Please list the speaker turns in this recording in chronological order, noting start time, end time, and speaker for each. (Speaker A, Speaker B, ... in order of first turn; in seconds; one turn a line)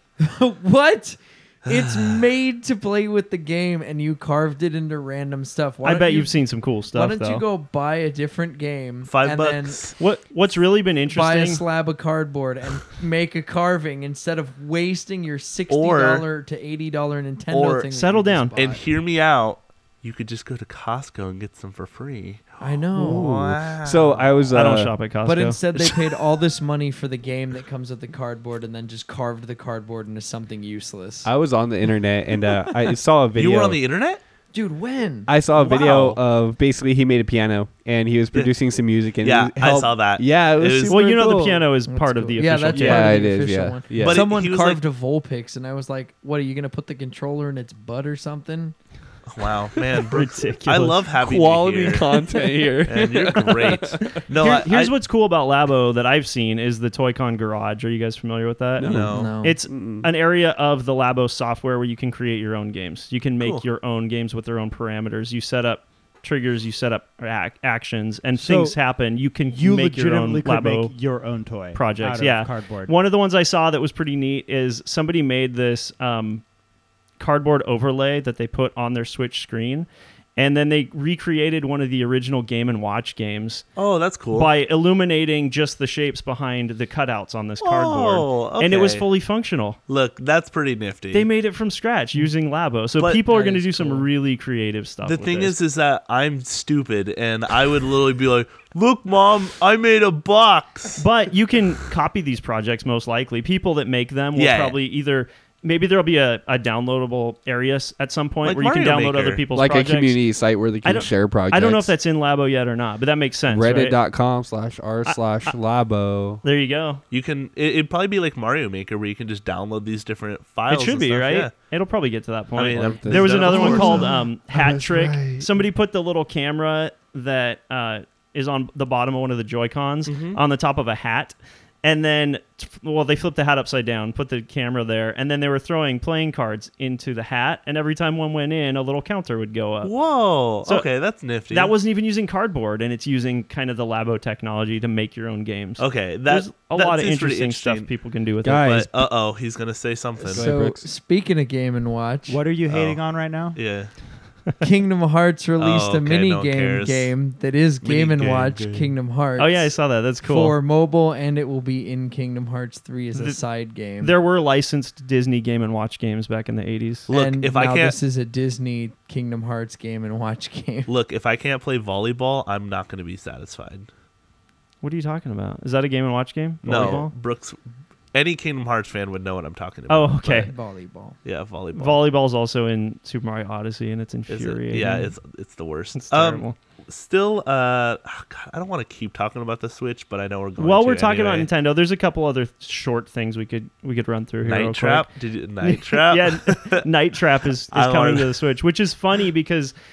Speaker A: 0.2-9.9
Speaker B: 1.7-2.2
Speaker C: 5.8-7.4
Speaker B: 9.1-10.0
Speaker C: 10.0-11.6
Speaker A: 11.1-18.8
Speaker B: 15.7-16.2
Speaker B: 17.5-17.9
Speaker C: 17.9-18.5
Speaker B: 18.5-24.3
Speaker A: 22.6-23.3
Speaker D: 23.0-24.9
Speaker C: 24.5-25.6
Speaker A: 25.2-31.3
Speaker B: 25.8-26.0
Speaker D: 31.2-33.8
Speaker B: 33.3-34.2
Speaker A: 34.5-35.4
Speaker D: 35.3-41.7
Speaker B: 35.6-36.2
Speaker B: 39.2-41.0
Speaker C: 40.9-43.1
Speaker A: 41.9-48.8
Speaker D: 42.7-44.2
Speaker B: 44.0-44.8
Speaker B: 49.3-52.2
Speaker C: 50.1-51.0
Speaker D: 51.2-54.1
Speaker B: 52.8-54.9
Speaker C: 54.0-70.9
Speaker D: 58.8-60.1
Speaker B: 58.8-59.3
Speaker A: 59.1-59.6
Speaker E: 68.3-68.8
Speaker E: 69.5-72.9
Speaker C: 71.7-76.4
Speaker C: 77.2-83.7
Speaker B: 83.8-84.5
Speaker C: 84.3-89.8
Speaker B: 87.6-89.1
Speaker B: 89.9-91.3
Speaker C: 91.1-95.5
Speaker A: 93.2-94.1
Speaker B: 95.0-101.0
Speaker C: 101.0-110.2
Speaker B: 104.3-104.8
Speaker B: 108.4-109.4
Speaker D: 109.5-112.0
Speaker C: 110.8-114.0
Speaker D: 113.5-116.4
Speaker C: 115.0-115.5
Speaker C: 116.4-117.0
Speaker B: 117.1-121.5
Speaker C: 120.7-139.9
Speaker B: 122.5-124.0
Speaker D: 122.7-125.7
Speaker B: 130.1-130.4
Speaker B: 139.8-141.7
Speaker C: 140.6-140.9
Speaker C: 141.5-148.7
Speaker B: 145.8-147.9
Speaker D: 148.4-149.0
Speaker B: 148.6-150.5
Speaker A: 150.2-152.4
Speaker D: 150.3-150.8
Speaker E: 152.3-153.6
Speaker B: 152.7-153.0
Speaker B: 153.5-153.9
Speaker A: 154.6-164.1
Speaker B: 155.6-157.1
Speaker B: 157.8-158.9
Speaker C: 159.4-160.6
Speaker C: 163.1-163.4
Speaker C: 164.0-167.1
Speaker B: 167.1-168.0
Speaker A: 167.1-170.9
Speaker B: 170.9-173.9
Speaker C: 174.8-177.1
Speaker B: 176.6-177.6
Speaker B: 178.1-180.5
Speaker C: 179.9-180.5
Speaker A: 180.3-181.2
Speaker B: 181.2-182.0
Speaker C: 181.7-185.1
Speaker B: 184.3-191.5
Speaker C: 185.9-186.6
Speaker C: 190.6-195.1
Speaker B: 194.4-196.8
Speaker C: 195.6-199.7
Speaker B: 197.7-198.3